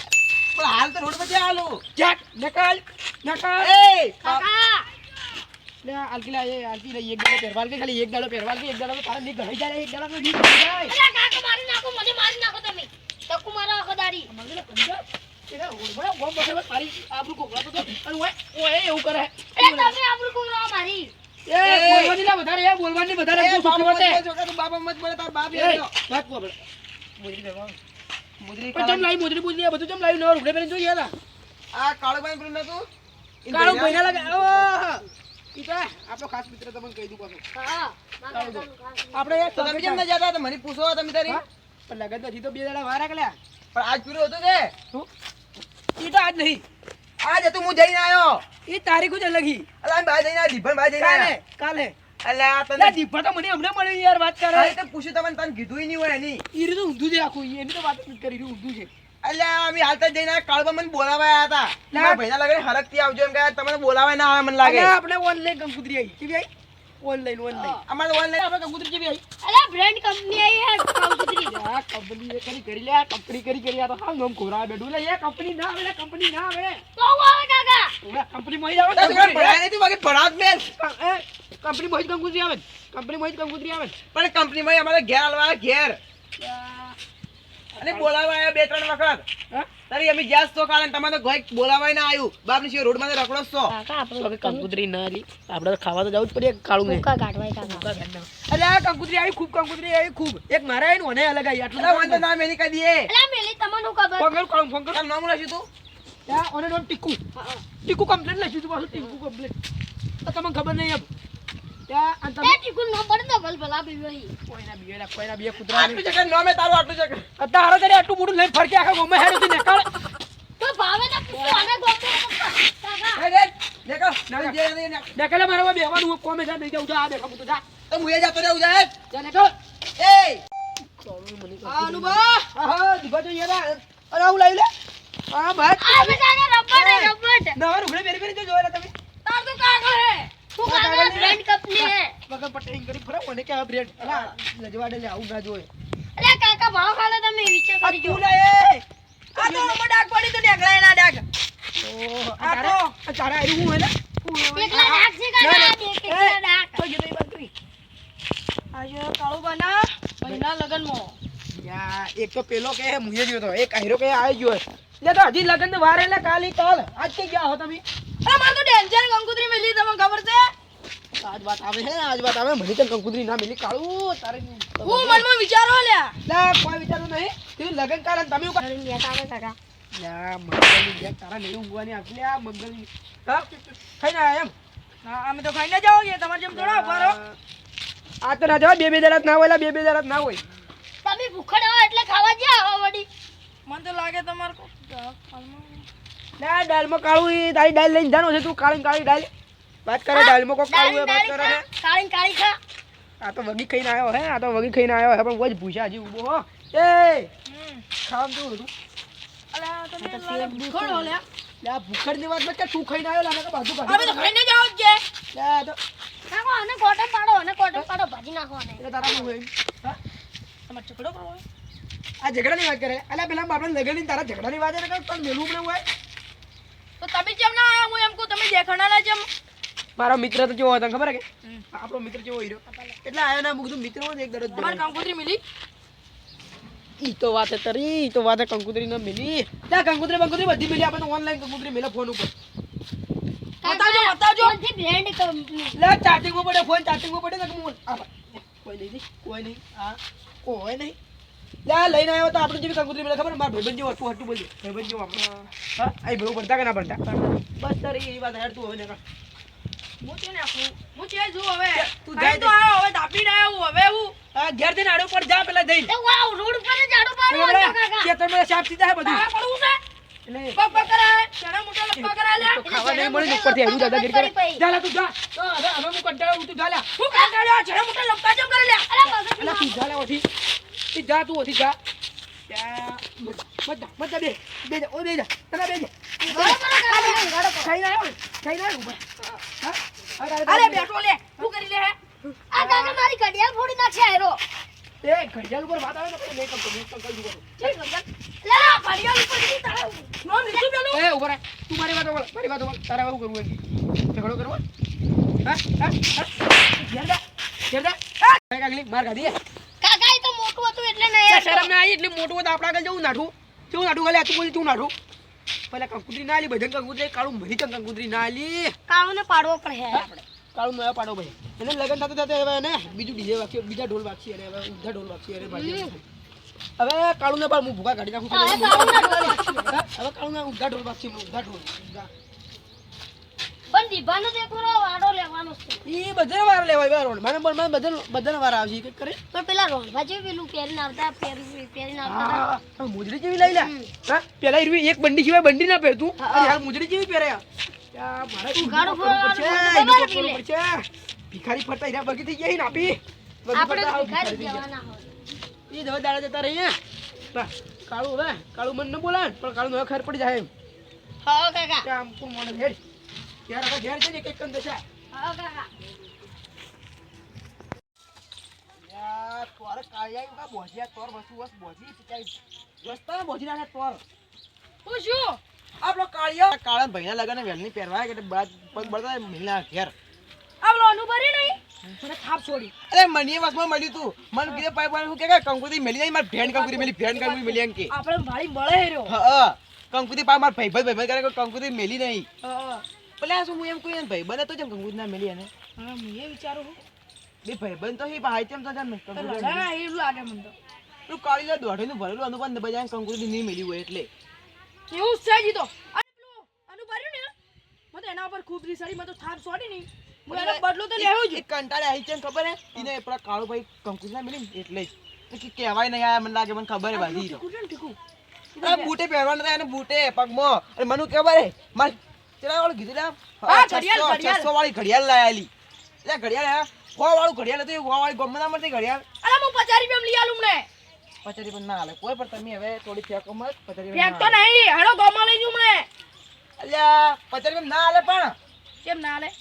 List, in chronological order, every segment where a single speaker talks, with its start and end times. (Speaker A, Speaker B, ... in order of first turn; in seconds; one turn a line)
Speaker A: 0.6-1.8
Speaker B: 1.9-3.7
Speaker A: 3.6-4.5
Speaker C: 4.2-4.8
Speaker B: 5.8-10.9
Speaker C: 10.9-14.3
Speaker B: 14.3-19.9
Speaker C: 19.6-21.1
Speaker B: 21.5-24.2
Speaker A: 21.6-22.2
Speaker A: 23.4-25.9
Speaker B: 25.5-26.6
Speaker B: 27.2-27.8
Speaker A: 28.4-29.1
Speaker B: 28.7-31.1
Speaker A: 31.7-32.9
Speaker A: 33.4-35.0
Speaker B: 33.5-34.7
Speaker B: 35.5-37.4
Speaker C: 37.5-39.6
Speaker B: 38.3-40.0
Speaker A: 39.5-41.4
Speaker B: 41.3-43.4
Speaker A: 43.7-44.7
Speaker B: 46.0-46.6
Speaker A: 47.2-48.4
Speaker B: 48.7-49.7
Speaker A: 49.8-51.3
Speaker B: 51.0-51.9
Speaker A: 52.2-53.0
Speaker B: 52.8-54.7
Speaker A: 54.5-56.4
Speaker B: 56.5-58.9
Speaker A: 59.2-64.9
Speaker B: 61.9-62.2
Speaker B: 64.6-66.5
Speaker B: 67.0-67.8
Speaker C: 67.5-67.8
Speaker A: 67.8-69.2
Speaker C: 69.4-71.5
Speaker B: 71.4-76.8
Speaker C: 77.0-77.9
Speaker B: 78.0-79.6
Speaker A: 78.9-80.7
Speaker B: 80.8-83.9
Speaker A: 84.1-86.0
Speaker B: 86.4-87.0
Speaker B: 87.7-88.1
Speaker A: 87.8-89.2
Speaker A: 89.9-93.7
Speaker C: 93.7-94.7
Speaker B: 94.2-97.1
Speaker C: 96.8-97.9
Speaker B: 97.6-102.2
Speaker A: 101.8-103.1
Speaker C: 103.1-104.3
Speaker B: 104.2-105.0
Speaker A: 104.9-105.7
Speaker B: 106.3-107.2
Speaker C: 107.3-107.6
Speaker B: 107.8-109.5
Speaker B: 110.2-111.1
Speaker B: 111.9-112.6
Speaker C: 112.4-114.3
Speaker B: 114.5-116.0
Speaker A: 115.7-117.3
Speaker B: 117.4-119.9
Speaker C: 120.6-123.2
Speaker B: 121.3-121.7
Speaker A: 123.1-125.1
Speaker B: 124.3-124.6
Speaker B: 125.1-127.6
Speaker A: 127.9-128.9
Speaker B: 129.1-129.5
Speaker A: 130.0-130.4
Speaker B: 131.0-134.7
Speaker D: 131.6-132.5
Speaker B: 135.3-136.2
Speaker C: 135.8-137.6
Speaker B: 136.7-138.9
Speaker D: 139.2-140.3
Speaker C: 140.6-142.1
Speaker B: 140.6-145.7
Speaker A: 144.0-144.3
Speaker C: 146.2-148.2
Speaker B: 147.8-148.8
Speaker B: 149.3-151.2
Speaker D: 149.4-149.8
Speaker B: 151.8-157.5
Speaker D: 152.4-152.9
Speaker C: 154.6-156.8
Speaker D: 158.7-161.2
Speaker B: 161.5-167.8
Speaker D: 168.2-170.5
Speaker B: 171.2-175.2
Speaker D: 174.8-176.1
Speaker B: 176.2-178.6
Speaker C: 178.6-179.6
Speaker B: 179.9-184.5
Speaker D: 185.0-187.2
Speaker B: 186.5-187.4
Speaker B: 188.2-190.4
Speaker C: 191.0-193.1
Speaker D: 193.7-195.8
Speaker B: 196.4-199.3
Speaker B: 199.8-201.6
Speaker C: 200.1-202.6
Speaker B: 203.2-207.3
Speaker D: 207.5-207.8
Speaker B: 208.0-208.7
Speaker D: 209.5-211.2
Speaker B: 210.0-211.1
Speaker B: 211.6-214.3
Speaker D: 213.8-215.0
Speaker B: 215.3-215.8
Speaker C: 216.3-218.8
Speaker B: 218.8-220.0
Speaker D: 220.7-221.4
Speaker B: 222.2-225.8
Speaker D: 227.0-229.3
Speaker B: 230.0-234.8
Speaker C: 232.7-233.0
Speaker D: 234.5-235.4
Speaker B: 237.0-242.3
Speaker D: 243.6-244.6
Speaker C: 243.6-245.8
Speaker B: 245.7-250.9
Speaker B: 251.7-255.2
Speaker D: 255.1-255.5
Speaker B: 255.8-257.0
Speaker D: 257.0-257.4
Speaker B: 257.6-259.0
Speaker D: 260.0-264.1
Speaker B: 261.8-262.5
Speaker B: 264.3-265.9
Speaker C: 265.9-268.1
Speaker B: 267.3-269.2
Speaker D: 269.0-269.8
Speaker B: 270.3-270.6
Speaker D: 270.6-272.7
Speaker B: 272.0-276.9
Speaker C: 272.6-274.6
Speaker D: 277.0-279.1
Speaker C: 278.9-279.8
Speaker B: 279.4-280.2
Speaker B: 280.9-281.8
Speaker B: 282.5-289.0
Speaker C: 286.2-287.3
Speaker D: 286.9-287.7
Speaker B: 289.6-290.9
Speaker D: 290.4-291.9
Speaker C: 292.5-294.4
Speaker D: 292.6-292.9
Speaker B: 295.0-297.5
Speaker D: 297.6-301.0
Speaker C: 298.4-298.8
Speaker B: 300.9-303.6
Speaker B: 304.1-304.6
Speaker B: 305.4-309.4
Speaker C: 309.8-311.7
Speaker B: 311.3-314.9
Speaker B: 315.7-318.7
Speaker C: 318.9-320.1
Speaker B: 319.9-326.0
Speaker C: 325.4-325.9
Speaker B: 326.8-332.1
Speaker C: 328.3-329.8
Speaker C: 333.7-335.8
Speaker B: 335.8-339.2
Speaker C: 339.3-342.4
Speaker B: 342.0-347.4
Speaker C: 343.4-343.9
Speaker C: 346.2-346.6
Speaker B: 347.9-354.6
Speaker C: 348.6-350.4
Speaker C: 353.5-355.1
Speaker B: 355.7-356.8
Speaker B: 357.3-360.5
Speaker C: 361.2-361.9
Speaker B: 361.8-362.8
Speaker B: 363.5-364.8
Speaker C: 365.1-365.7
Speaker A: 368.8-374.0
Speaker D: 374.8-375.4
Speaker A: 375.8-379.9
Speaker D: 380.6-382.7
Speaker A: 382.9-387.9
Speaker D: 386.4-389.1
Speaker A: 389.1-392.2
Speaker D: 392.4-392.8
Speaker A: 393.2-395.5
Speaker D: 395.8-396.8
Speaker A: 397.4-399.7
Speaker D: 399.1-400.5
Speaker A: 401.1-404.1
Speaker D: 404.9-407.3
Speaker D: 407.9-411.4
Speaker A: 410.3-417.4
Speaker D: 416.9-417.9
Speaker D: 418.5-418.9
Speaker A: 418.6-425.5
Speaker D: 423.5-424.5
Speaker A: 426.0-429.0
Speaker D: 429.2-430.7
Speaker A: 431.2-434.4
Speaker D: 433.9-435.9
Speaker A: 436.6-438.3
Speaker D: 438.8-439.3